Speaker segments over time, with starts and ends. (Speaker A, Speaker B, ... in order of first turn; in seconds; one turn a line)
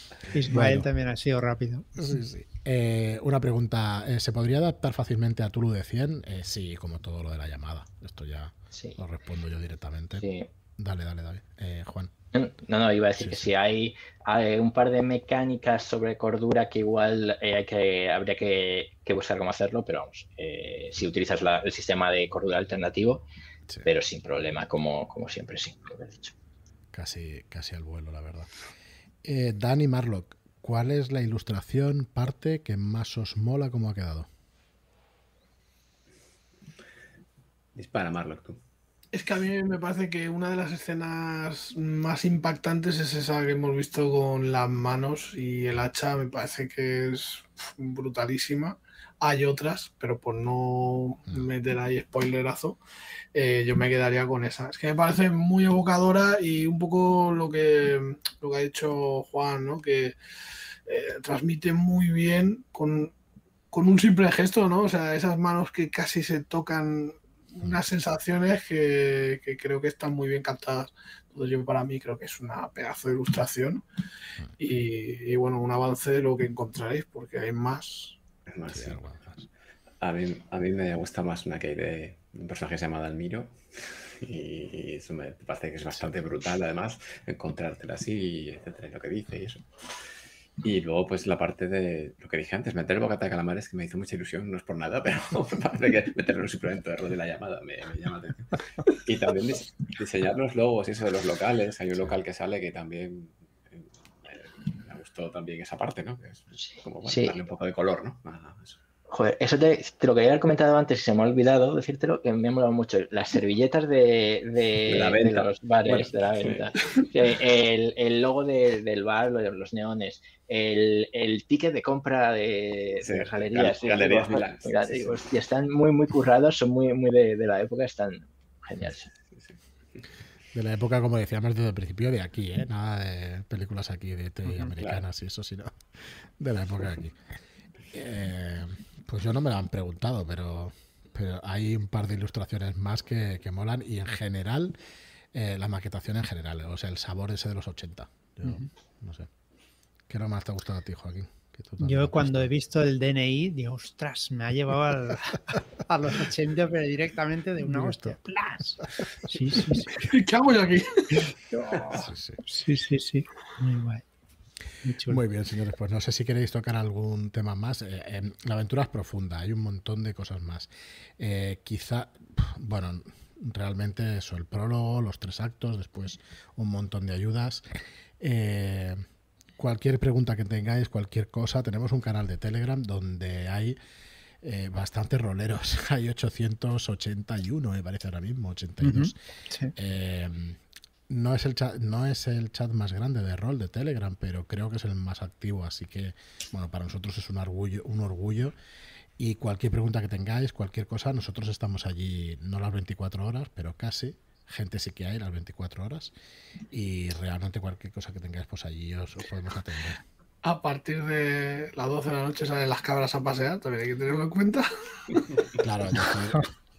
Speaker A: 0.3-1.9
Speaker B: 0.5-0.9
Speaker B: 2.0-10.2
Speaker C: 8.7-9.0
Speaker C: 10.2-10.5
Speaker B: 10.8-12.1
Speaker C: 12.3-23.2
Speaker B: 13.2-13.5
Speaker C: 23.8-26.3
Speaker B: 26.9-28.5
Speaker B: 29.2-34.3
Speaker D: 37.7-38.6
Speaker E: 39.1-52.8
Speaker E: 53.3-60.1
Speaker E: 60.9-63.1
Speaker E: 63.7-73.8
Speaker E: 74.6-78.2
Speaker D: 78.5-79.0
Speaker B: 78.7-79.4
Speaker D: 80.0-89.7
Speaker D: 90.6-108.8
Speaker C: 107.0-107.3
Speaker C: 109.1-129.1
Speaker D: 114.9-117.0
Speaker D: 123.0-125.2
Speaker D: 129.3-130.0
Speaker B: 130.5-137.2
Speaker D: 134.5-135.0
Speaker B: 137.9-144.8
Speaker B: 145.3-149.3
Speaker B: 150.1-152.5
Speaker A: 151.8-160.0
Speaker B: 157.7-158.2
Speaker E: 160.0-162.0
Speaker B: 161.9-162.4
Speaker A: 162.4-164.0
Speaker A: 164.8-165.2
Speaker B: 165.1-177.7
Speaker B: 178.2-179.0
Speaker B: 179.6-183.8
Speaker B: 184.4-189.1
Speaker A: 188.8-189.7
Speaker B: 189.7-198.5
Speaker B: 199.2-206.1
Speaker B: 206.7-210.0
Speaker E: 210.4-215.4
Speaker B: 215.6-216.5